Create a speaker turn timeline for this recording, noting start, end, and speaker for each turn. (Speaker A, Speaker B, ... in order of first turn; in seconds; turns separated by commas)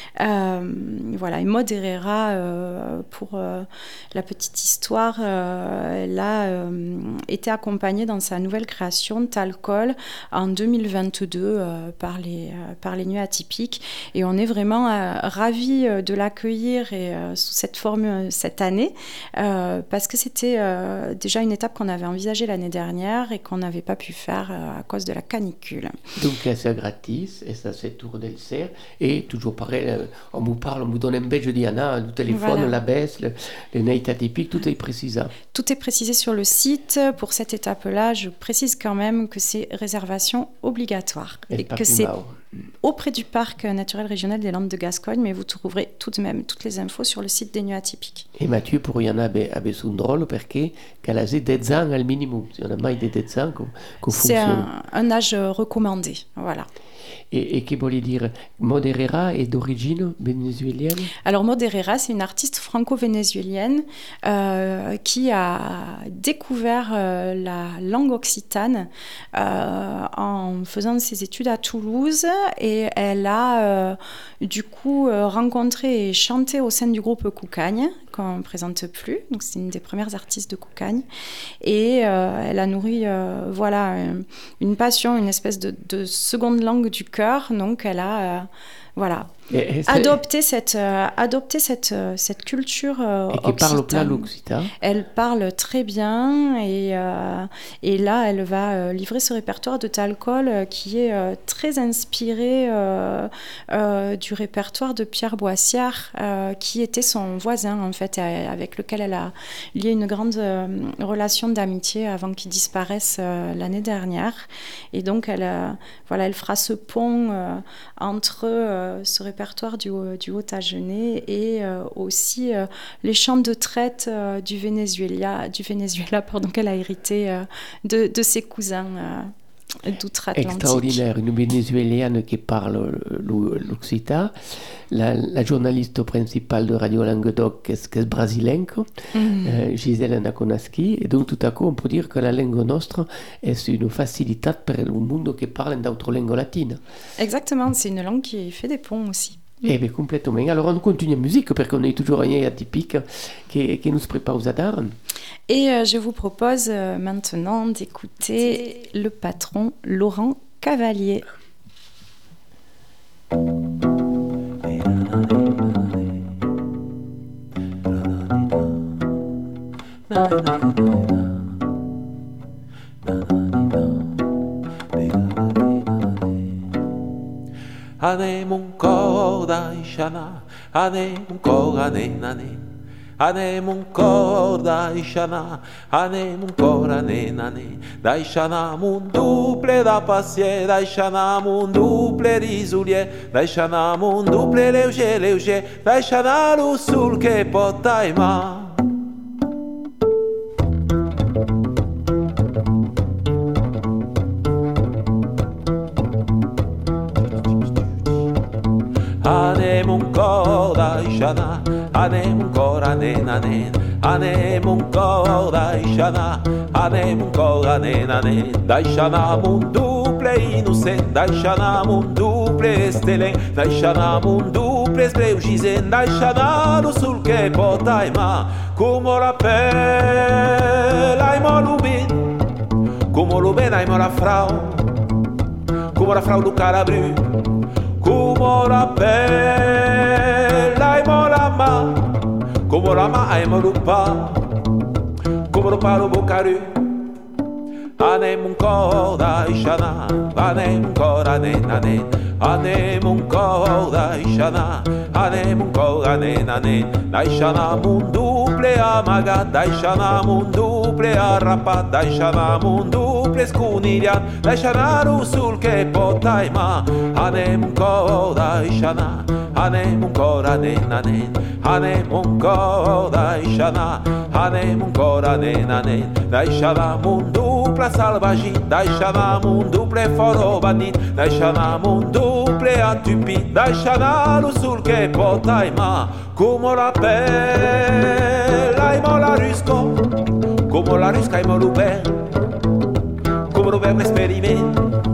Speaker A: 0.2-25.9, Speaker B: 26.2-35.3, Speaker A: 32.3-32.7, Speaker A: 35.5-42.1, Speaker B: 41.5-42.4, Speaker A: 42.8-48.3, Speaker B: 48.4-54.7, Speaker A: 54.1-56.7, Speaker B: 57.3-61.1, Speaker A: 61.2-81.0, Speaker A: 81.6-89.3, Speaker B: 89.5-90.2, Speaker A: 89.8-94.3, Speaker B: 93.3-94.7, Speaker A: 94.8-129.3, Speaker A: 129.8-131.0, Speaker B: 130.3-134.3, Speaker B: 134.9-138.9, Speaker A: 139.1-139.5, Speaker B: 139.4-146.8, Speaker A: 147.2-149.6, Speaker B: 149.6-154.9, Speaker A: 155.5-161.2, Speaker C: 164.6-166.1, Speaker C: 167.9-168.8, Speaker C: 170.1-171.3, Speaker C: 173.0-174.1, Speaker C: 174.9-176.5, Speaker C: 178.0-182.6, Speaker C: 183.2-198.8, Speaker C: 209.2-232.3, Speaker C: 233.1-234.9, Speaker C: 235.9-237.2, Speaker C: 238.0-244.5, Speaker C: 245.5-246.8, Speaker C: 248.0-290.0, Speaker C: 290.7-292.2, Speaker C: 293.5-294.8